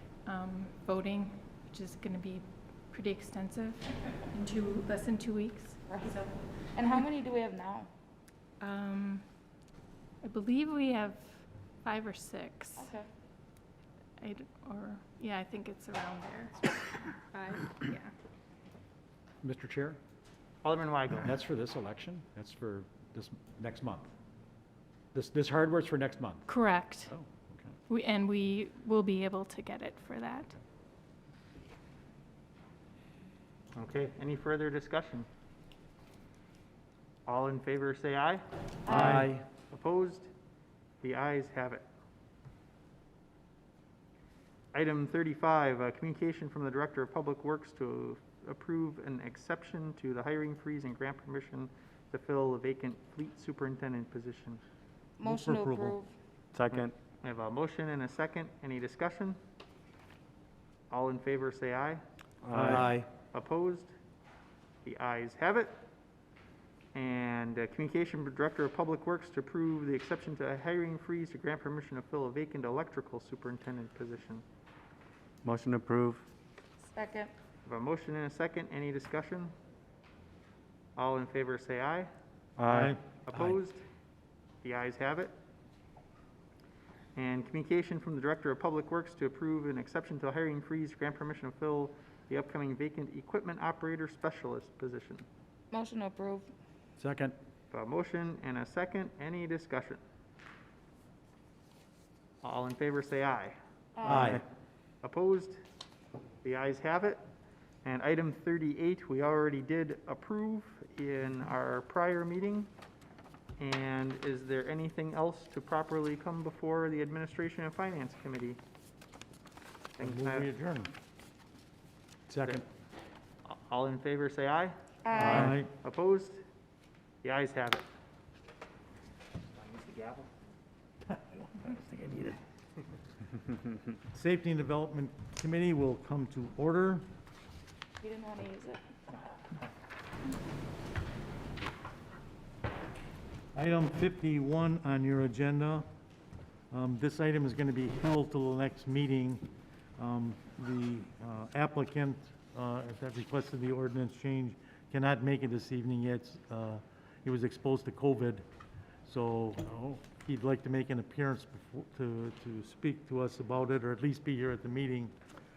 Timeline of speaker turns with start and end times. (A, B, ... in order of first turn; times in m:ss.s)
0:00.2-0:06.4 A
0:05.9-0:07.9 B
0:08.6-0:09.2 A
0:10.2-0:11.3 A
0:11.8-0:12.9 A
0:12.8-0:13.1 B
0:14.2-0:18.1 A
0:19.4-0:20.0 C
0:20.6-0:21.3 D
0:21.2-0:24.1 C
0:25.1-0:26.4 C
0:26.5-0:27.1 A
0:27.1-0:27.7 C
0:27.9-0:30.5 A
0:33.8-0:35.3 D
0:37.2-0:40.3 D
0:38.8-0:39.3 B
0:38.9-0:39.3 E
0:41.0-0:41.8 D
0:44.7-0:54.6 D
0:55.2-0:56.1 B
0:55.2-0:56.0 E
0:56.5-0:56.9 F
0:56.7-0:59.4 D
1:00.9-1:02.0 D
1:02.4-1:02.8 F
1:02.5-1:03.0 E
1:02.7-1:03.0 C
1:02.7-1:03.9 D
1:04.8-1:05.7 D
1:06.9-1:14.4 D
1:15.4-1:16.2 F
1:16.9-1:17.3 B
1:17.6-1:19.5 D
1:21.0-1:22.1 D
1:22.6-1:22.8 F
1:22.7-1:23.0 E
1:23.2-1:23.8 D
1:24.6-1:25.3 D
1:27.1-1:35.2 D
1:35.7-1:36.5 B
1:37.0-1:37.3 C
1:37.7-1:40.0 D
1:42.4-1:44.4 D
1:44.0-1:44.4 B
1:45.0-1:45.6 D
1:46.4-1:47.2 D
1:47.8-1:52.7 D
1:53.6-1:58.6 D
2:00.0-2:00.5 D
2:00.0-2:00.9 E
2:03.4-2:06.4 D
2:05.0-2:05.5 B
2:05.2-2:05.7 E
2:07.2-2:07.8 D
2:09.5-2:10.3 D
2:11.3-2:12.4 D
2:14.1-2:17.0 E
2:18.0-2:18.8 B
2:23.5-2:25.8 E
2:26.7-2:29.4 E
2:30.0-2:38.4 E
2:39.0-2:45.1 E